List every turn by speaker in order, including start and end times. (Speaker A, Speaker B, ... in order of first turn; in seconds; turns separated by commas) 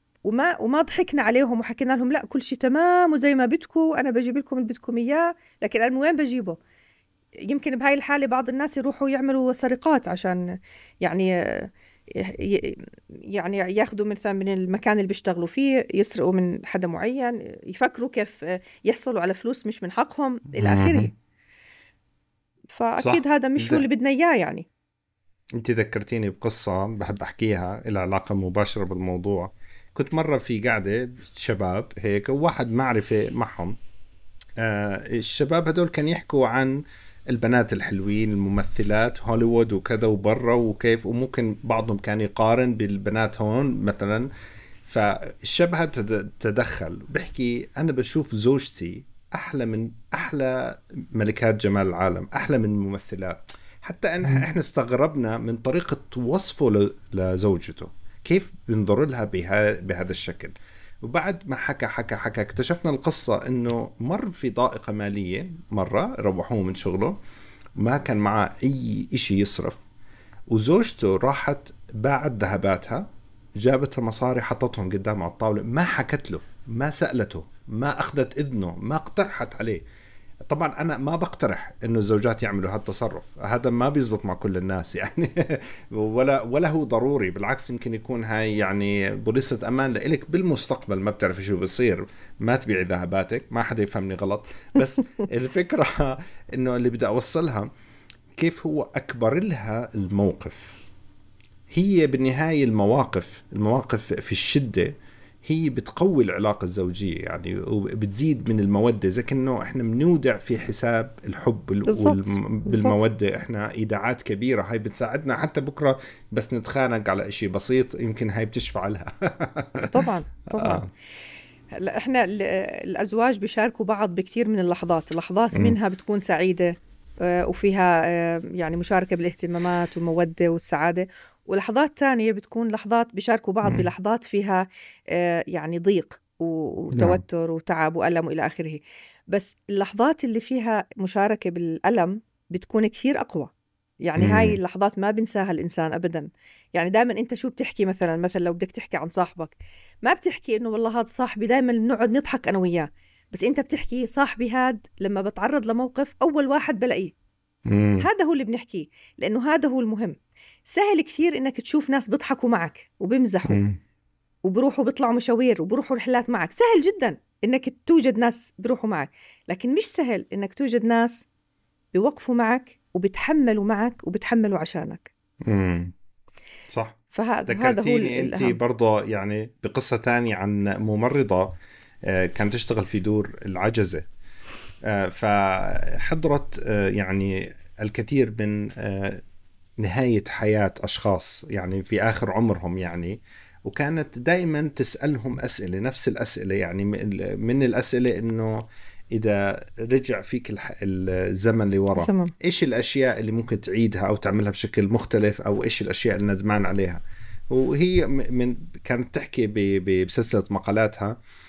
Speaker A: 0.2-6.6, Speaker A: 7.5-21.1, Speaker B: 20.6-21.1, Speaker A: 22.7-24.7, Speaker B: 23.0-23.8, Speaker B: 25.6-33.8, Speaker B: 34.6-44.3, Speaker B: 44.8-67.2, Speaker B: 67.8-69.8, Speaker B: 70.5-73.1, Speaker B: 73.6-79.8, Speaker B: 80.5-97.7, Speaker B: 98.4-100.8, Speaker B: 101.7-104.9, Speaker B: 105.4-120.0, Speaker A: 111.8-113.0, Speaker A: 119.9-120.8, Speaker B: 120.6-120.9, Speaker A: 121.8-143.5, Speaker A: 144.0-157.1, Speaker B: 144.2-144.6, Speaker B: 157.7-158.1, Speaker A: 158.0-160.2, Speaker A: 160.7-163.6, Speaker B: 163.5-163.8, Speaker A: 164.4-171.3, Speaker A: 171.9-175.1, Speaker B: 175.4-175.9, Speaker B: 176.7-181.5, Speaker A: 177.1-178.6, Speaker B: 182.1-184.1, Speaker B: 184.8-189.2, Speaker B: 189.8-211.1, Speaker A: 201.9-202.3